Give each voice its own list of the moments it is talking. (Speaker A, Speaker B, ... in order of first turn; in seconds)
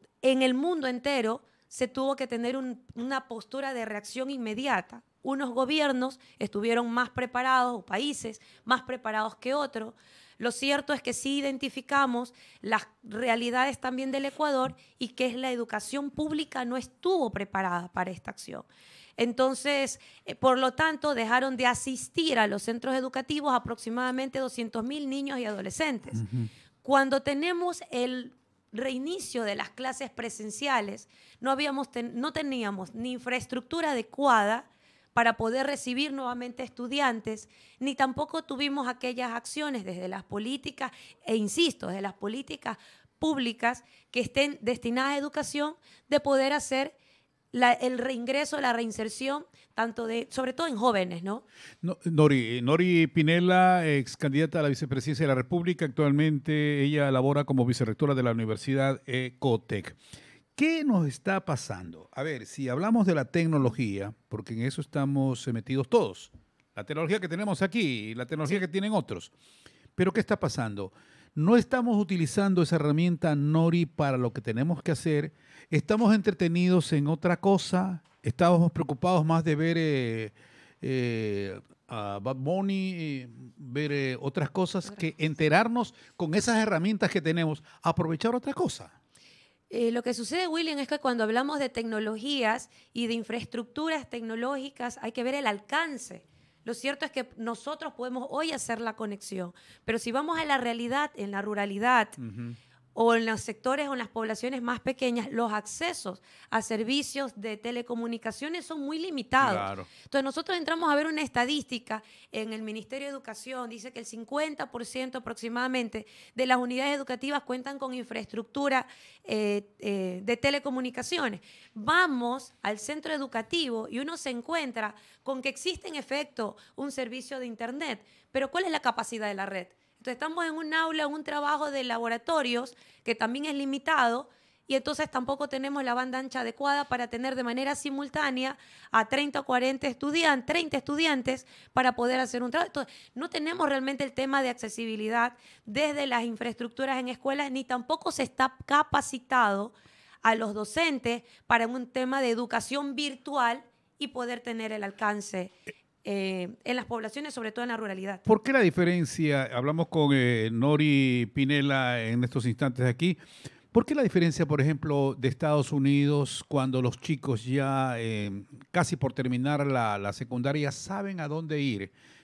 Speaker A: 0.2-18.7, 19.2-26.2, 26.8-47.0, 47.5-51.4, 89.7-102.2, 103.0-158.2
Speaker B: 26.1-26.5, 51.8-60.0, 60.5-69.3, 70.0-88.9, 102.2-102.6, 109.4-109.9, 158.3-163.2, 163.7-171.9